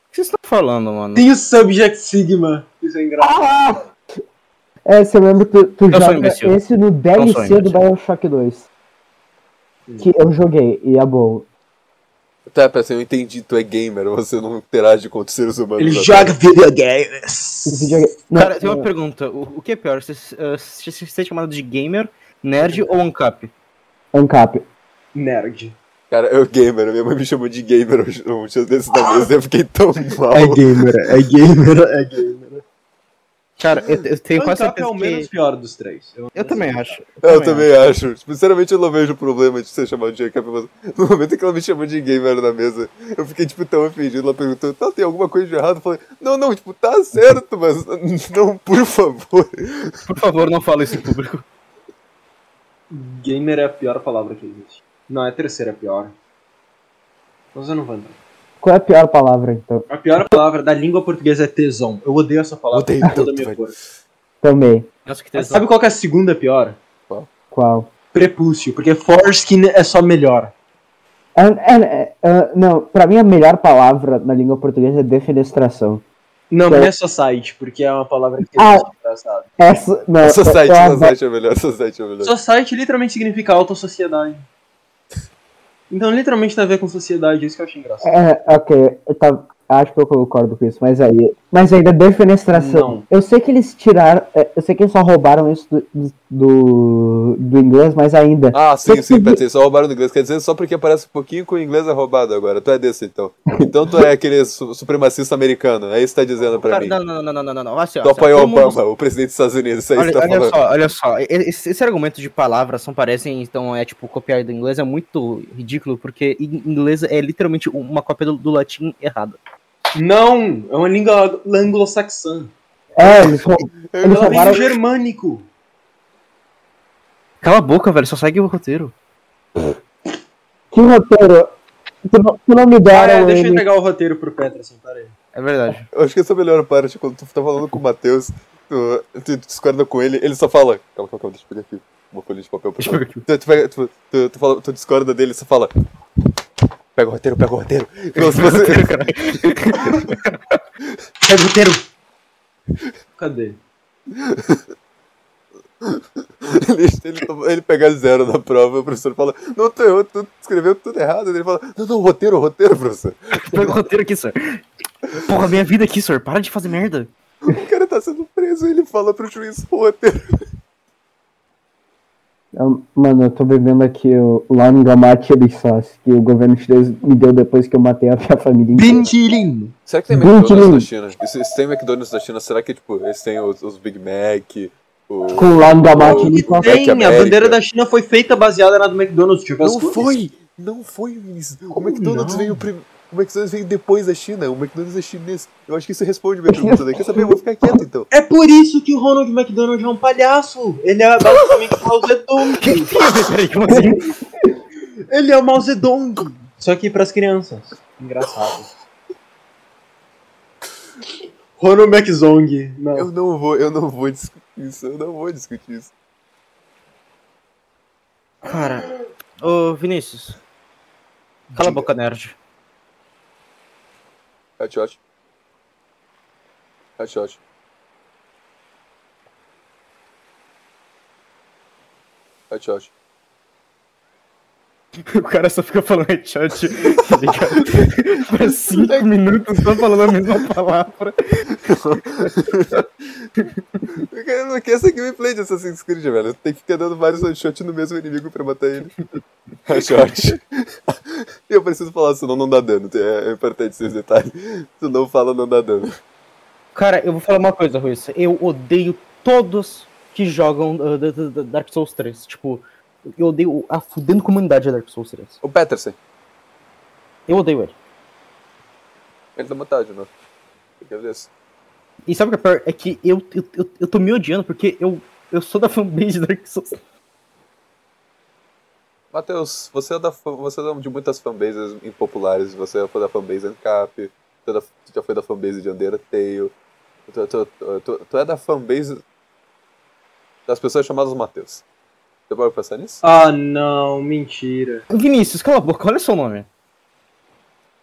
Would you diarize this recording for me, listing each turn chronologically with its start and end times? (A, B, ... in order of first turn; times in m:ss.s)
0:00.1-0:01.3 A
0:01.1-0:03.5 B
0:03.2-0:03.8 C
0:04.8-0:08.7 C
0:05.9-0:06.6 A
0:07.1-0:07.8 A
0:09.9-0:10.1 B
0:10.0-0:11.5 C
0:12.5-0:16.4 D
0:15.8-0:18.0 B
0:17.6-0:18.9 C
0:18.3-0:23.5 A
0:22.6-0:22.9 B
0:24.1-0:24.7 C
0:25.1-0:25.8 B
0:26.1-0:30.8 D
0:30.3-0:32.6 B
0:33.6-0:35.3 A
0:34.3-0:37.0 B
0:36.4-0:37.7 A
0:37.2-0:50.0 D
0:50.1-0:51.4 A
0:52.9-0:56.1 B
0:57.5-0:58.2 B
0:58.6-0:59.9 C
0:59.9-1:03.8 B
1:02.7-1:03.6 D
1:04.4-1:04.9 C
1:05.0-1:05.6 A
1:05.3-1:06.8 B
1:07.5-1:07.9 C
1:08.1-1:10.5 B
1:11.3-1:16.0 C
1:16.5-1:19.5 B
1:18.6-1:18.9 C
1:19.6-1:21.1 C
1:20.2-1:22.3 D
1:22.2-1:24.4 B
1:25.9-1:28.1 B
1:28.0-1:39.4 C
1:32.5-1:33.0 B
1:38.5-1:47.0 D
1:46.4-1:48.8 A
1:48.0-1:50.6 D
1:49.9-1:59.4 A
1:59.9-2:02.5 B
2:03.0-2:04.6 C
2:03.0-2:04.7 D
2:04.1-2:05.5 B
2:07.4-2:08.9 A
2:10.7-2:13.6 C
2:12.9-2:15.1 B
2:15.3-2:15.9 A
2:15.9-2:25.7 D
2:22.8-2:23.2 A
2:26.9-2:30.2 D
2:28.2-2:30.6 A
2:31.2-2:31.8 B
2:33.2-2:33.6 B
2:34.1-2:34.6 D
2:35.8-2:43.8 D
2:43.4-2:44.6 A
2:45.1-2:45.4 D
2:45.2-2:47.1 A
2:47.4-2:50.2 D
2:52.5-2:59.1 C
2:58.7-2:59.7 B
2:59.8-3:07.6 D
3:00.1-3:00.9 C
3:05.3-3:06.8 C
3:06.0-3:10.1 B
3:09.6-3:18.1 D
3:11.8-3:12.6 B
3:16.5-3:17.8 C
3:18.1-3:22.9 B
3:22.6-3:24.0 A
3:23.7-3:24.0 C
3:25.1-3:28.7 B
3:31.6-3:33.1 B
3:32.9-3:35.9 D
3:38.4-3:40.4 A
3:41.5-3:42.4 A
3:44.6-3:45.0 D
3:47.0-3:47.4 D
3:52.5-3:52.9 D
3:55.1-4:01.6 A
3:57.1-3:57.6 D
3:58.7-4:00.3 D
4:01.6-4:09.0 D
4:09.7-4:16.0 D
4:09.7-4:10.2 A
4:16.7-4:25.4 A
4:25.4-4:26.0 D
4:27.3-4:27.7 A
4:29.4-4:30.1 D
4:30.8-4:31.3 D
4:32.0-4:36.8 A
4:39.1-4:46.5 D
4:47.1-4:49.0 D
4:50.5-4:51.6 D
4:52.3-4:53.0 D
4:53.0-4:54.8 B
4:54.9-4:56.5 A